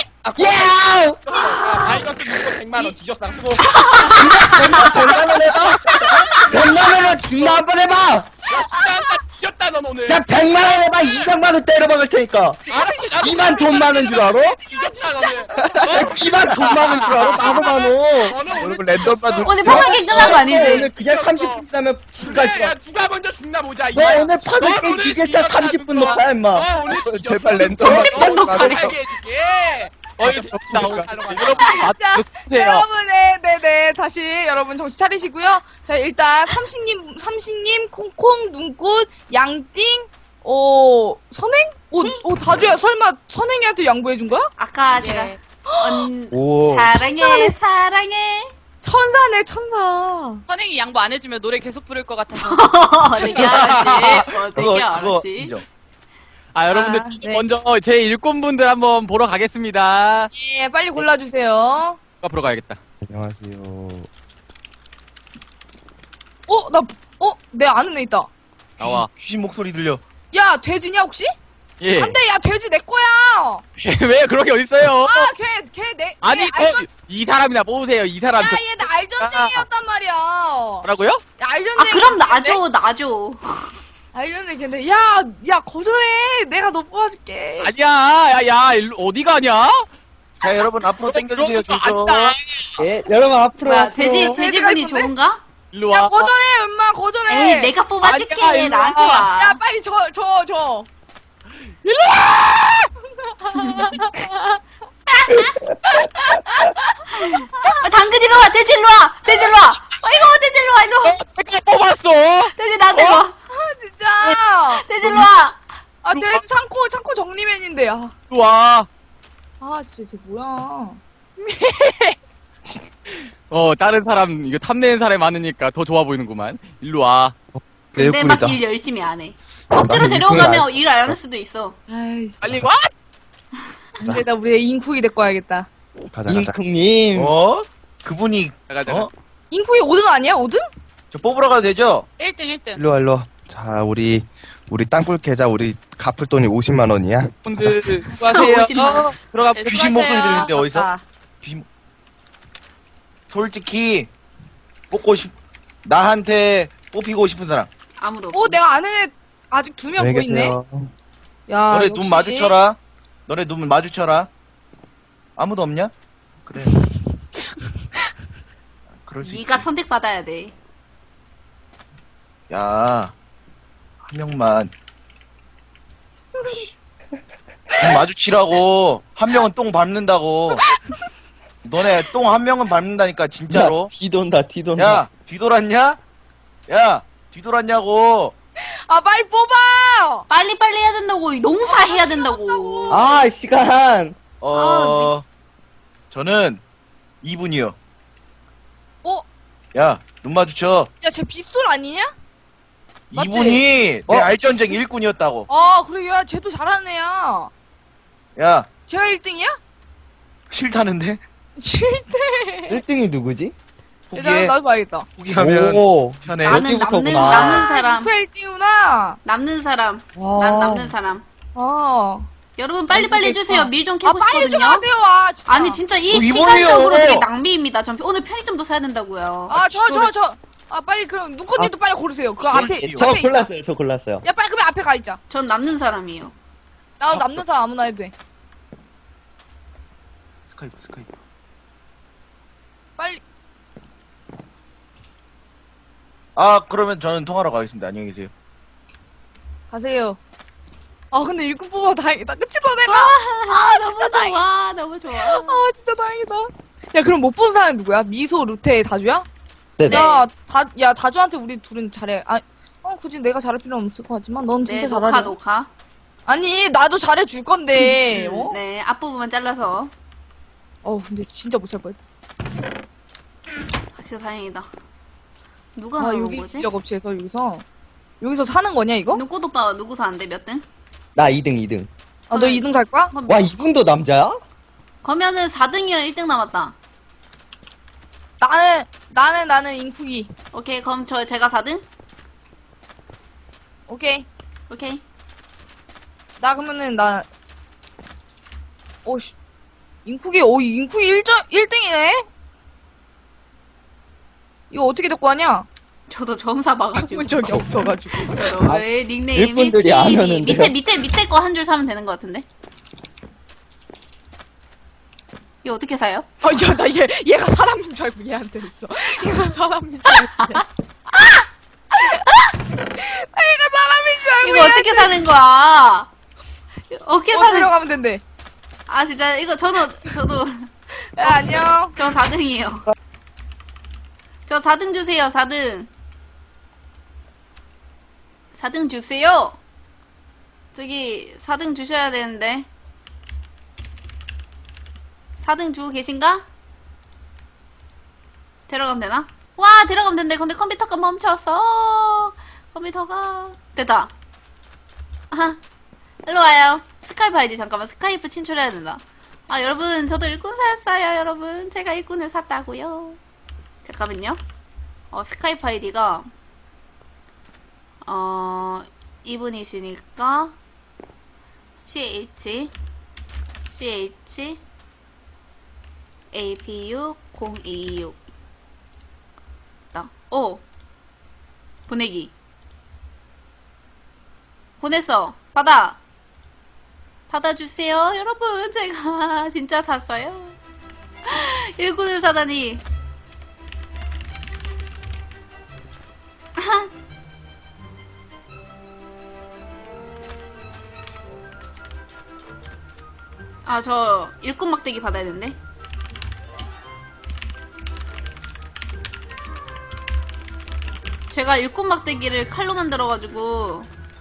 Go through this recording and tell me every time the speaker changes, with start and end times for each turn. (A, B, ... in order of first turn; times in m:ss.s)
0:00.2-0:00.7 A
0:00.4-0:01.2 B
0:01.2-0:04.1 A
0:03.6-0:05.3 C
0:04.1-0:08.3 B
0:05.9-0:06.5 C
0:06.0-0:07.6 A
0:08.5-0:10.3 A
0:08.5-0:09.2 D
0:10.1-0:12.6 B
0:12.7-0:15.8 D
0:12.7-0:19.6 A
0:13.2-0:14.6 B
0:15.9-0:18.4 B
0:18.5-0:20.4 E
0:19.4-0:20.9 C
0:19.6-0:22.7 B
0:20.2-0:21.6 A
0:22.2-0:31.9 A
0:23.9-0:26.7 B
0:26.9-0:29.0 E
0:27.8-0:28.5 B
0:27.8-0:29.0 C
0:30.2-0:31.2 E
0:30.7-0:32.9 F
0:31.4-0:44.5 D
0:42.0-0:42.2 C
0:44.6-0:48.5 C
0:45.0-0:45.3 G
0:45.7-0:46.1 D
0:46.3-0:46.9 B
0:47.1-0:47.6 D
0:48.8-0:50.4 D
0:50.5-0:52.6 G
0:52.3-0:55.6 C
0:53.2-0:55.6 H
0:56.6-1:00.3 F
0:56.8-0:57.4 D
1:00.3-1:02.0 D
1:02.2-1:02.8 F
1:03.1-1:04.1 E
1:06.5-1:08.3 D
1:08.8-1:10.0 H
1:08.8-1:09.1 F
1:10.3-1:11.3 D
1:11.8-1:12.2 F
1:12.0-1:13.6 D
1:13.8-1:15.3 F
1:15.0-1:16.9 D
1:16.2-1:19.7 F
1:18.4-1:20.9 D
1:20.8-1:21.2 F
1:21.4-1:22.6 D
1:21.8-1:23.8 C
1:24.1-1:27.7 D
1:27.6-1:29.9 F
1:30.4-1:32.8 F
1:30.4-1:32.4 H
1:32.8-1:34.4 B
1:33.6-1:35.4 C
1:34.0-1:35.1 D
1:35.7-1:36.3 F
1:35.9-1:37.7 D
1:37.3-1:39.6 C
1:38.0-1:39.2 F
1:38.9-1:40.9 D
1:41.9-1:42.8 F
1:43.3-1:44.6 D
1:43.6-1:43.9 C
1:45.2-1:45.5 C
1:45.9-1:47.8 D
1:47.1-1:51.2 C
1:49.8-1:50.3 F
1:51.0-1:53.2 F
1:52.5-1:53.3 C
1:53.5-1:55.1 D
1:54.7-1:55.7 C
1:55.0-1:55.3 F
1:56.0-1:58.1 D
1:56.1-1:56.4 F
1:58.3-1:58.9 F
1:59.6-2:01.0 D
2:01.5-2:02.2 F
2:03.5-2:07.4 F
2:07.9-2:11.8 C
2:08.0-2:08.2 E
2:09.8-2:10.5 E
2:11.9-2:12.6 D
2:14.0-2:15.7 D
2:16.1-2:16.6 E
2:16.3-2:17.3 B
2:17.2-2:19.1 H
2:18.7-2:19.1 F
2:19.5-2:20.7 D
2:21.1-2:22.1 H
2:22.2-2:22.8 G
2:22.8-2:27.8 E
2:27.4-2:29.7 F
2:28.2-2:29.2 C
2:29.5-2:30.5 G
2:29.6-2:30.9 H
2:30.4-2:31.0 D
2:33.3-2:34.1 H
2:34.9-2:35.3 H
2:35.8-2:37.7 H
2:38.0-2:38.6 C
2:38.3-2:40.6 D
2:40.0-2:40.9 E
2:41.5-2:42.6 D
2:41.7-2:44.3 H
2:45.4-2:45.9 H
2:46.4-2:46.8 H
2:49.0-2:49.7 H
2:49.2-2:50.6 C
2:52.5-2:53.1 H
2:54.0-2:54.7 H
2:57.8-3:00.6 H
3:00.6-3:01.0 D
3:01.6-3:03.9 H
3:03.5-3:05.0 B
3:04.8-3:06.0 H
3:06.7-3:08.3 H
3:08.9-3:10.3 D
3:10.3-3:13.1 C
3:11.6-3:13.3 D
3:12.9-3:14.2 B
3:14.4-3:15.2 H
3:14.5-3:15.2 C
3:16.1-3:16.6 H
3:17.2-3:17.8 H
3:19.8-3:20.9 H
3:21.0-3:22.1 D
3:23.1-3:25.5 H
3:23.2-3:23.6 D
3:24.1-3:24.8 B
3:25.5-3:27.5 D
3:28.4-3:28.7 H
3:28.9-3:29.6 D
3:30.5-3:31.2 H
3:31.6-3:32.8 D
3:32.7-3:33.5 B
3:34.1-3:34.6 H
3:34.1-3:35.1 D
3:35.2-3:36.6 H
3:35.4-3:37.7 B
3:36.4-3:38.1 C
3:37.2-3:39.2 D
3:39.2-3:41.2 C
3:40.2-3:40.9 B
3:41.6-3:42.3 D
3:42.6-3:44.9 C
3:42.9-3:45.8 D
3:45.5-3:50.0 C
3:46.1-3:47.3 H
3:49.5-3:53.5 D
3:52.4-3:53.2 H
3:52.6-3:54.2 B
3:54.2-3:55.2 D
3:55.3-3:56.3 C
3:57.0-3:58.1 D
4:00.5-4:01.2 H
4:06.4-4:08.3 H
4:09.7-4:10.2 D
4:11.1-4:14.4 D
4:12.9-4:15.6 C
4:15.1-4:19.3 D
4:19.8-4:20.0 B
4:19.8-4:20.2 C
4:19.9-4:25.4 D
4:24.6-4:25.7 C
4:26.3-4:28.6 D
4:28.1-4:29.9 C
4:30.8-4:32.2 D
4:34.0-4:34.7 C
4:35.8-4:36.7 C
4:36.0-4:37.6 D
4:38.2-4:39.2 D
4:39.1-4:40.6 C
4:41.2-4:41.9 B
4:42.3-4:43.1 D
4:42.3-4:43.5 C
4:43.3-4:44.4 B
4:45.0-4:46.8 C
4:48.4-4:50.3 D
4:50.5-4:51.8 C
4:53.9-4:54.3 D
4:54.7-4:55.0 C
4:56.4-4:57.3 D
4:59.0-4:59.4 D
5:00.0-5:02.3 D
5:04.7-5:05.7 D
5:06.1-5:12.5 C
5:07.0-5:08.7 D
5:08.6-5:10.7 B
5:15.6-5:16.3 C
5:16.4-5:22.2 D
5:23.0-5:25.2 D
5:24.4-5:26.1 C
5:26.9-5:27.7 C
5:27.3-5:28.2 D
5:28.9-5:30.7 C
5:31.1-5:32.0 D
5:31.2-5:32.8 C
5:34.5-5:35.9 C
5:38.6-5:39.6 C
5:40.7-5:42.7 C
5:45.4-5:46.4 C
5:48.7-5:54.1 C
5:55.3-5:55.6 C
5:56.2-6:03.2 C
6:03.8-6:04.4 C
6:05.1-6:06.3 C
6:08.0-6:10.6 C
6:11.8-6:12.7 C
6:13.7-6:14.6 C
6:16.3-6:18.2 C
6:19.9-6:20.6 C
6:21.9-6:22.3 C
6:24.8-6:26.0 C
6:27.3-6:30.6 C
6:31.2-6:32.8 C
6:36.6-6:36.9 C
6:43.6-6:45.6 C
6:51.3-6:53.9 C